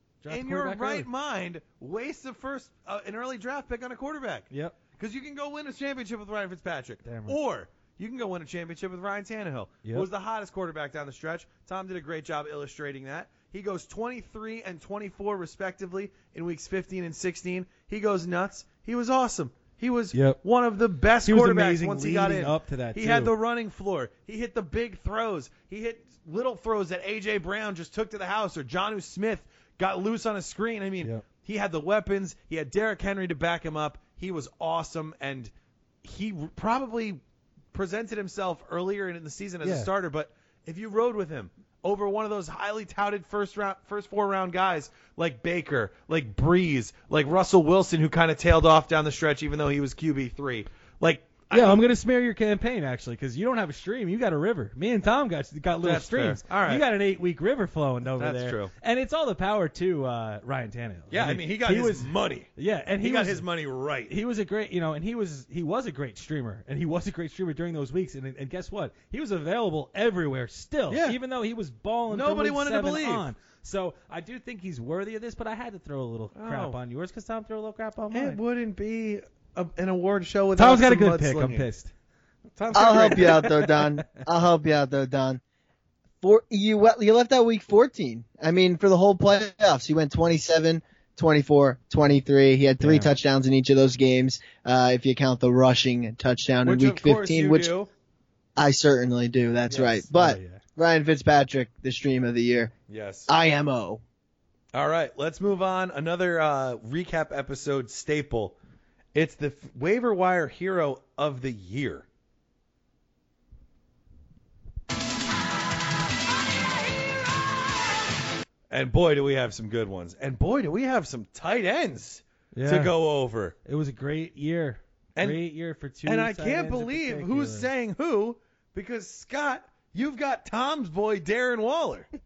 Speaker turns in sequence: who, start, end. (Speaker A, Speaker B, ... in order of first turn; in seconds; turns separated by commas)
Speaker A: 0.2-1.1, Speaker B: 0.3-35.5, Speaker A: 4.5-4.8, Speaker A: 7.0-7.4, Speaker A: 20.1-20.4, Speaker A: 21.2-23.3, Speaker B: 36.0-37.2, Speaker B: 37.7-51.8, Speaker A: 39.6-39.9, Speaker A: 51.5-63.5, Speaker B: 55.8-56.8, Speaker B: 58.2-58.7, Speaker B: 61.1-62.5, Speaker B: 63.0-64.1, Speaker A: 64.1-78.4, Speaker B: 70.9-71.2, Speaker B: 72.1-73.3, Speaker B: 76.3-76.8, Speaker B: 78.1-81.7, Speaker A: 80.6-81.9, Speaker B: 82.6-83.5, Speaker C: 82.8-85.4, Speaker A: 82.8-83.8, Speaker C: 86.2-97.7, Speaker A: 92.8-93.1, Speaker B: 96.6-97.9, Speaker C: 98.6-102.7, Speaker A: 99.7-100.6, Speaker B: 102.9-103.3, Speaker C: 103.3-104.0, Speaker B: 104.7-108.6, Speaker B: 109.2-112.1, Speaker B: 118.7-123.5, Speaker A: 122.5-123.0, Speaker A: 123.7-127.7, Speaker B: 125.2-125.4, Speaker B: 126.1-132.1